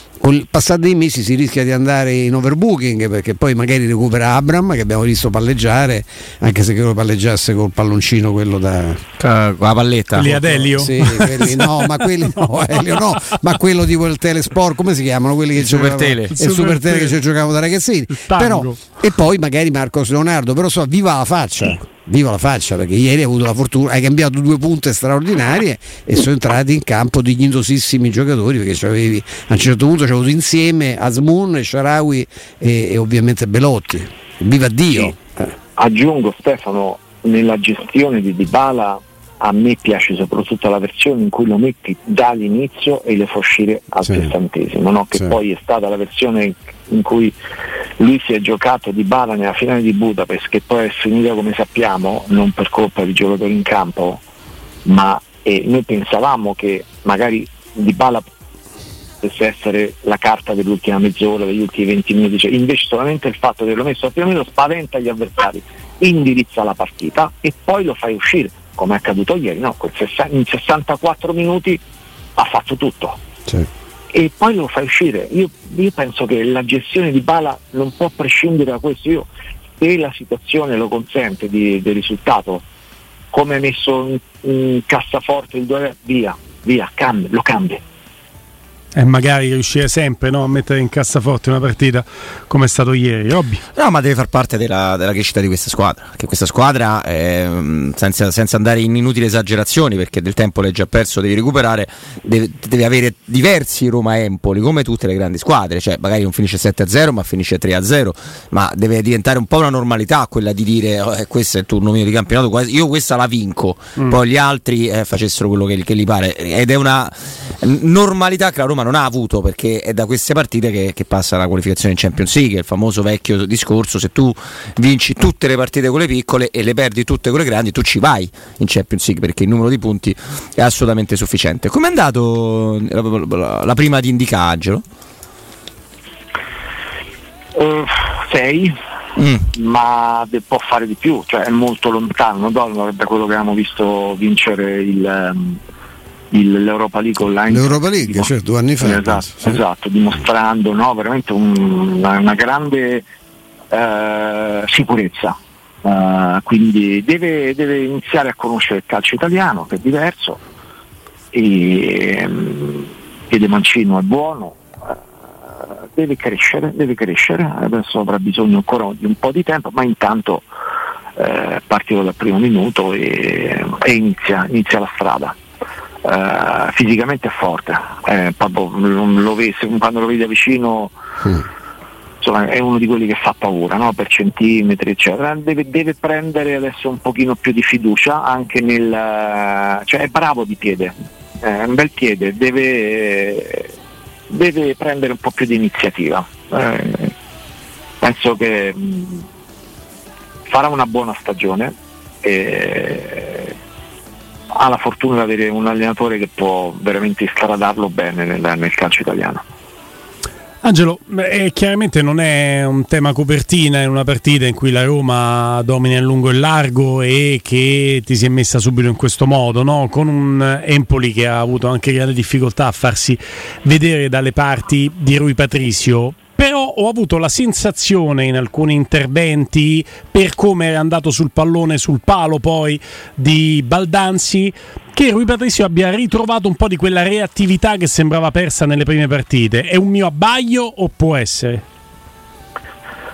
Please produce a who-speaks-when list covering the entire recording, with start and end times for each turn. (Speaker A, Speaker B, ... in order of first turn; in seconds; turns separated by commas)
Speaker A: 0.2-9.0, Speaker B: 9.2-10.8, Speaker C: 10.1-13.2, Speaker A: 10.7-35.5, Speaker B: 15.6-16.3, Speaker C: 16.3-17.2, Speaker C: 18.1-18.9, Speaker D: 35.8-47.3, Speaker D: 48.0-54.2, Speaker D: 54.8-58.2, Speaker D: 59.2-71.8, Speaker D: 72.3-73.2, Speaker D: 74.1-79.3, Speaker D: 79.8-82.6, Speaker D: 83.3-87.8, Speaker C: 88.9-93.6, Speaker B: 93.7-134.8, Speaker D: 137.5-138.7, Speaker B: 139.2-139.5, Speaker D: 139.5-145.6, Speaker D: 146.3-153.0, Speaker A: 147.5-149.6, Speaker D: 153.7-160.4, Speaker D: 161.3-170.4, Speaker D: 171.2-175.3, Speaker D: 176.0-180.9, Speaker D: 182.2-193.7, Speaker D: 194.3-197.1, Speaker D: 198.0-199.2, Speaker D: 200.5-203.5, Speaker D: 204.5-209.4, Speaker C: 210.6-241.6